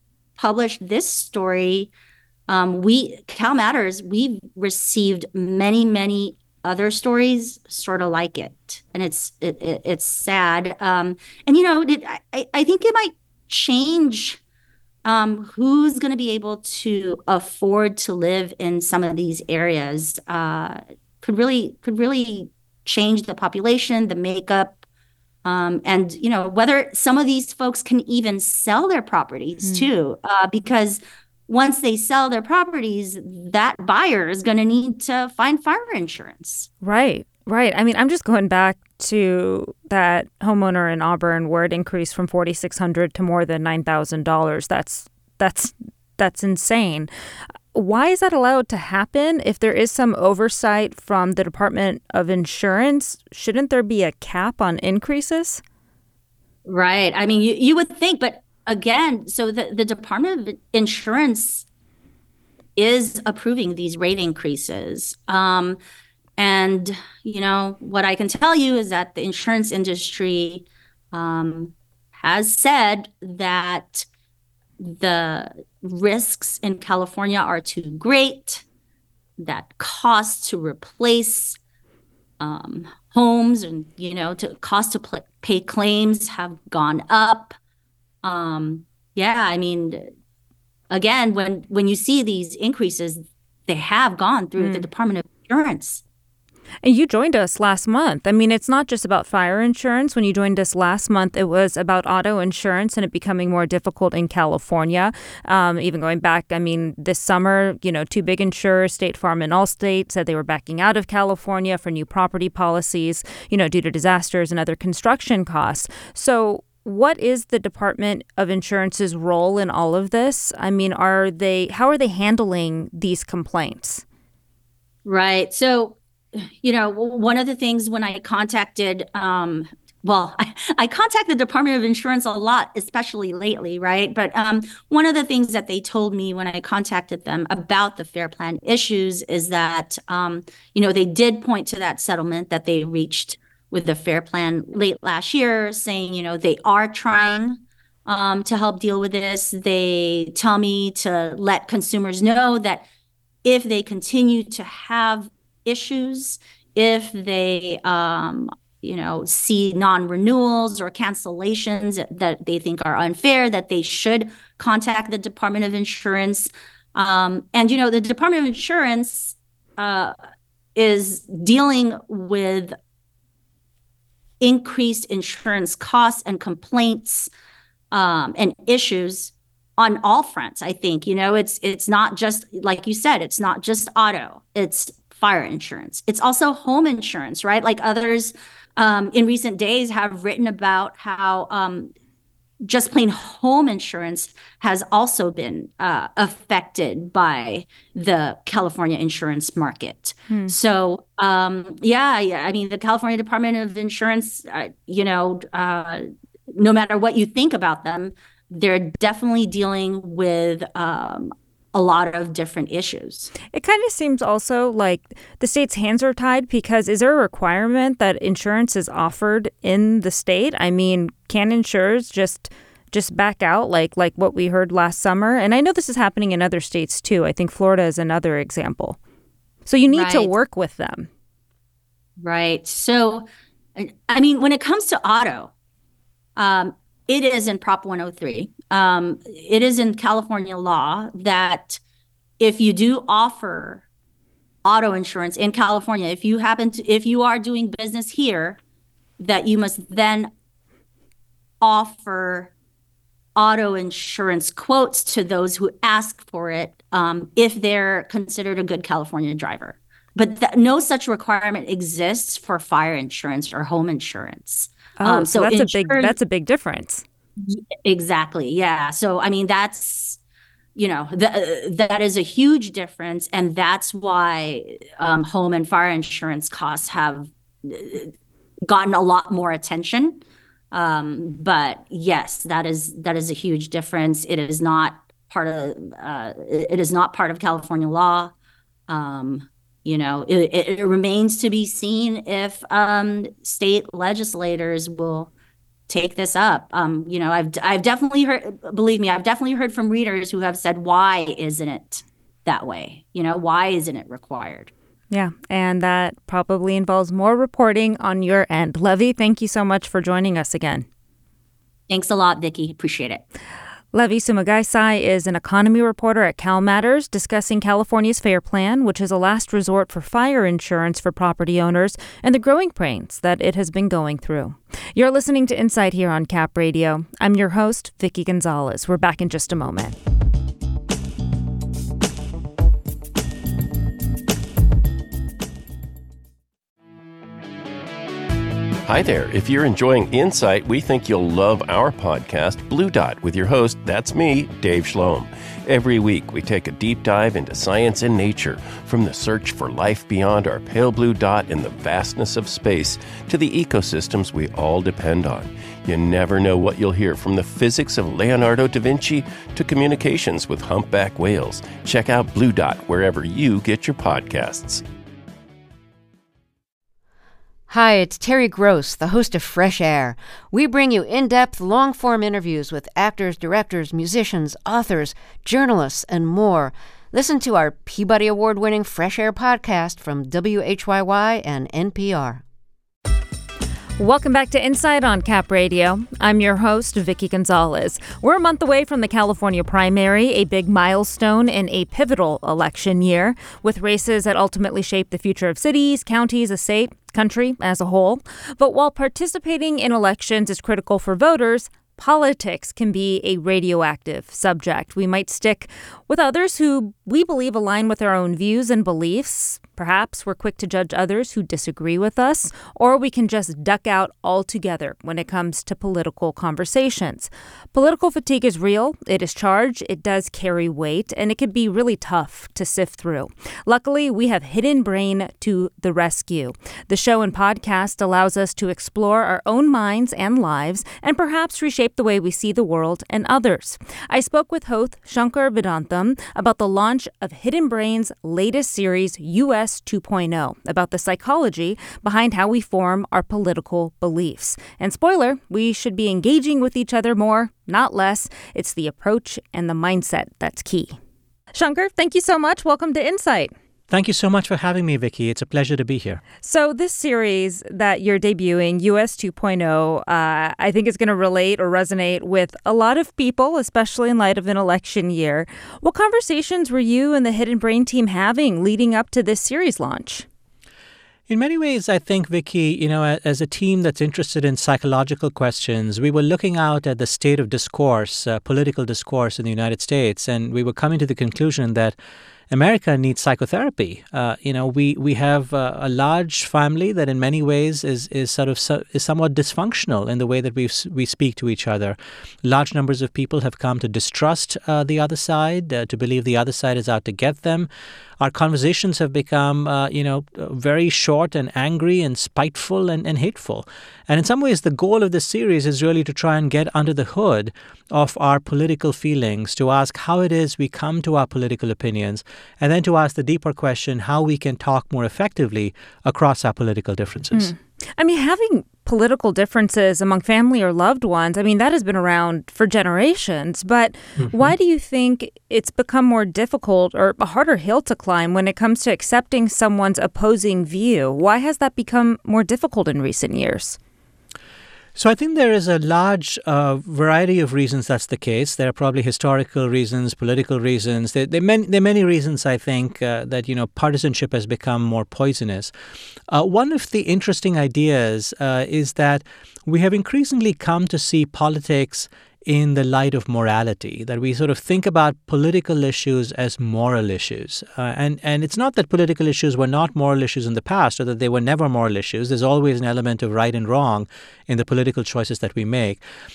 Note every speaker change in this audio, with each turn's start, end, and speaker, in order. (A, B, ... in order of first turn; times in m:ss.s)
0:00.4-0:01.9 A
0:02.5-0:14.4 A
0:15.0-0:24.8 A
0:25.4-0:36.7 A
0:29.6-0:29.9 B
0:36.8-0:47.1 B
0:47.7-0:55.6 B
0:56.6-1:01.6 A
1:02.8-1:05.8 A
1:06.4-1:14.0 A
1:14.8-1:18.6 A
1:19.4-1:21.6 A
1:22.4-1:27.6 A
1:28.2-1:30.1 A
1:30.9-1:36.0 A
1:34.6-1:34.9 B
1:36.8-2:04.0 B
2:05.0-2:32.8 A
2:33.4-2:50.1 A
2:50.7-2:52.8 A
2:54.4-2:57.3 A
2:57.9-3:11.9 A
3:12.6-3:33.3 A
3:20.3-3:20.5 B
3:33.5-3:49.0 B
3:49.6-3:51.1 B
3:49.9-3:50.3 A
3:52.2-3:55.5 A
3:56.4-4:01.8 A
4:02.4-4:03.8 A
4:04.6-4:08.6 A
4:09.2-4:10.3 A
4:11.6-4:12.5 A
4:13.4-4:26.1 A
4:25.0-4:27.0 B
4:27.4-4:30.2 A
4:30.8-4:38.1 A
4:38.6-4:48.3 A
4:48.9-4:55.3 A
4:55.9-5:04.7 A
5:05.1-5:10.8 B
5:11.9-5:13.2 A
5:13.9-5:30.0 B
5:38.8-6:04.8 C
6:07.7-6:22.4 D
6:24.0-7:31.0 B
7:31.5-7:33.5 B
7:33.9-7:36.2 E
7:36.4-7:50.2 B
7:51.3-8:02.0 E
8:02.5-8:17.7 E
8:18.2-8:37.5 E
8:37.3-8:53.8 B
8:44.2-8:44.5 E
8:55.0-9:05.7 E
9:06.3-9:26.0 E